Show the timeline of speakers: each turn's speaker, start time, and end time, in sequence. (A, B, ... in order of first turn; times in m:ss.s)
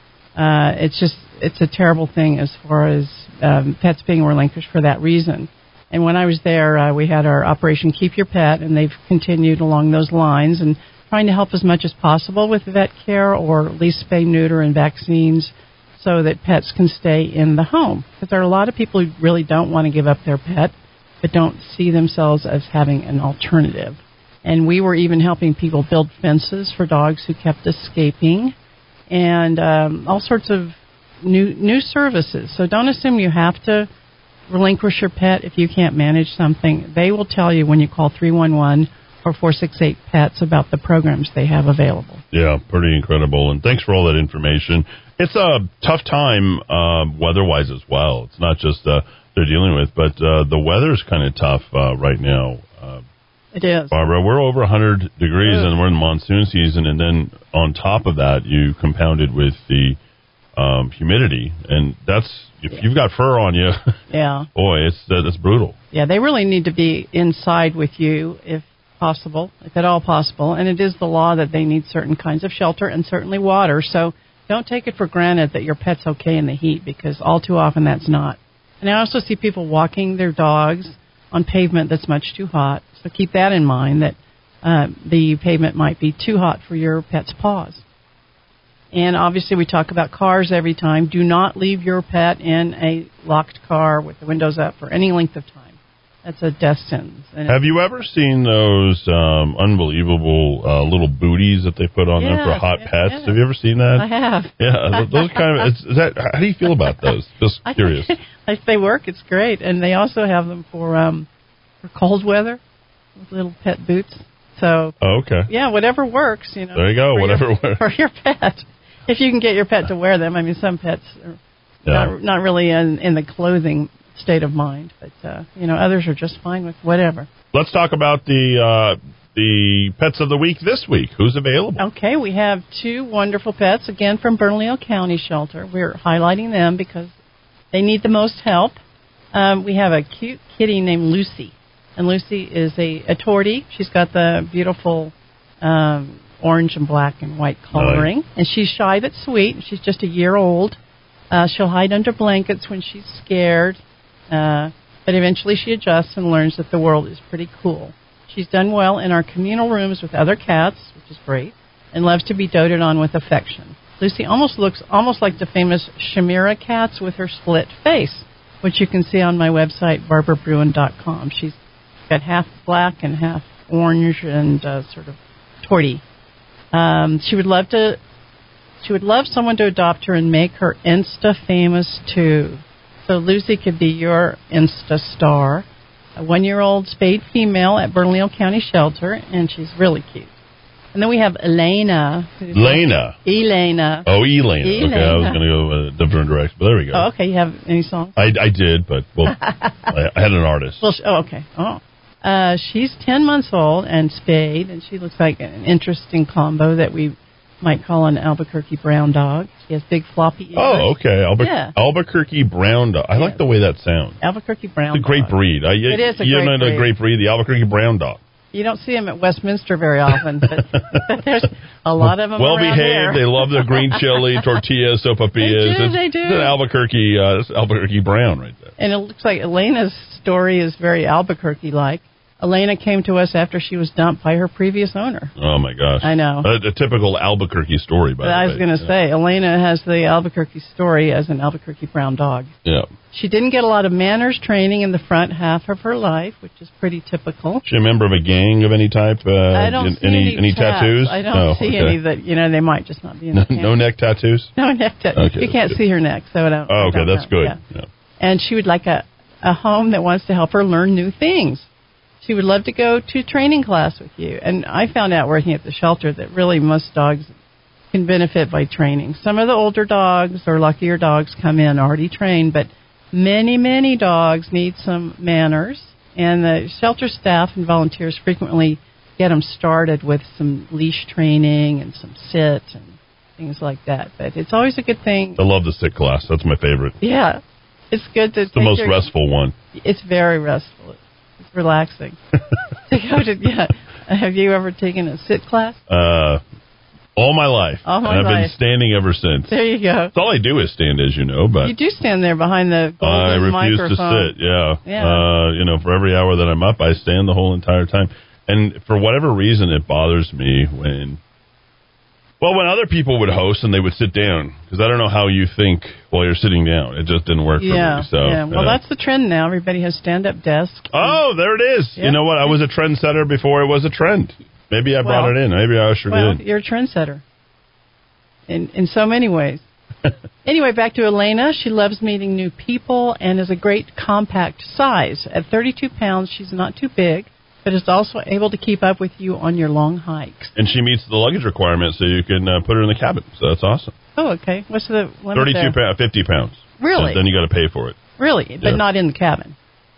0:00.4-0:28.5 A
0:29.1-0:33.9 A
0:34.5-0:42.2 A
0:42.3-0:53.0 B
0:53.5-0:54.0 A
0:53.9-1:00.0 B
0:55.4-0:55.7 A
1:00.6-1:03.8 B
1:04.1-1:04.5 A
1:04.6-1:05.8 B
1:05.9-1:27.8 A
1:28.9-1:37.7 A
1:37.5-1:44.1 B
1:42.2-1:43.4 A
1:43.9-1:45.6 A
1:44.6-1:48.2 B
1:47.7-1:51.3 A
1:51.8-1:52.6 A
1:53.2-1:55.0 A
1:55.0-1:55.5 B
1:55.5-2:01.4 A
1:56.8-1:57.8 B
2:01.9-2:02.1 B
2:01.9-2:07.3 A
2:07.5-2:11.8 B
2:11.8-2:17.1 A
2:17.7-2:18.8 A
2:19.3-2:30.8 A
2:27.7-2:28.1 B
2:31.3-2:56.0 A
2:56.7-2:58.0 A
2:58.8-3:10.4 A
3:10.9-3:15.4 A
3:12.5-3:13.2 B
3:14.1-3:17.1 B
3:16.9-3:18.2 A
3:18.2-3:20.8 B
3:19.3-3:19.9 A
3:20.8-3:31.7 A
3:30.6-3:34.2 B
3:33.2-3:33.4 A
3:34.2-3:35.3 A
3:34.9-3:38.2 B
3:35.9-3:36.9 A
3:38.5-3:44.5 A
3:42.3-3:48.7 B
3:45.4-3:46.6 A
3:48.8-3:55.4 A
3:55.4-3:58.9 B
3:56.0-3:56.5 A
3:58.2-4:02.5 A
4:03.1-4:07.6 A
4:07.7-4:12.0 B
4:09.5-4:13.8 A
4:13.3-4:14.5 B
4:14.6-4:17.6 A
4:15.2-4:15.8 B
4:16.7-4:17.9 B
4:18.2-4:21.7 A
4:22.2-4:27.4 A
4:27.9-4:45.4 A
4:45.4-4:47.0 B
4:47.0-4:47.4 A
4:47.9-4:49.1 A
4:48.5-4:49.5 B
4:49.8-4:52.2 A
4:52.8-4:55.8 A
4:55.9-4:56.4 B
4:57.2-4:59.6 B
4:57.8-4:58.5 A
4:59.5-5:00.1 A
5:00.1-5:01.7 B
5:01.6-5:05.3 A
5:03.0-5:11.2 B
5:12.4-5:18.8 B
5:17.6-5:21.2 A
5:20.9-5:26.4 B
5:22.0-5:22.5 A
5:25.0-5:25.4 A
5:26.1-5:27.2 A
5:28.5-5:29.7 A
5:30.4-5:40.6 A
5:40.6-5:43.9 B
5:44.2-5:45.8 A
5:45.4-5:48.0 B
5:46.8-5:47.2 A
5:48.2-5:49.6 A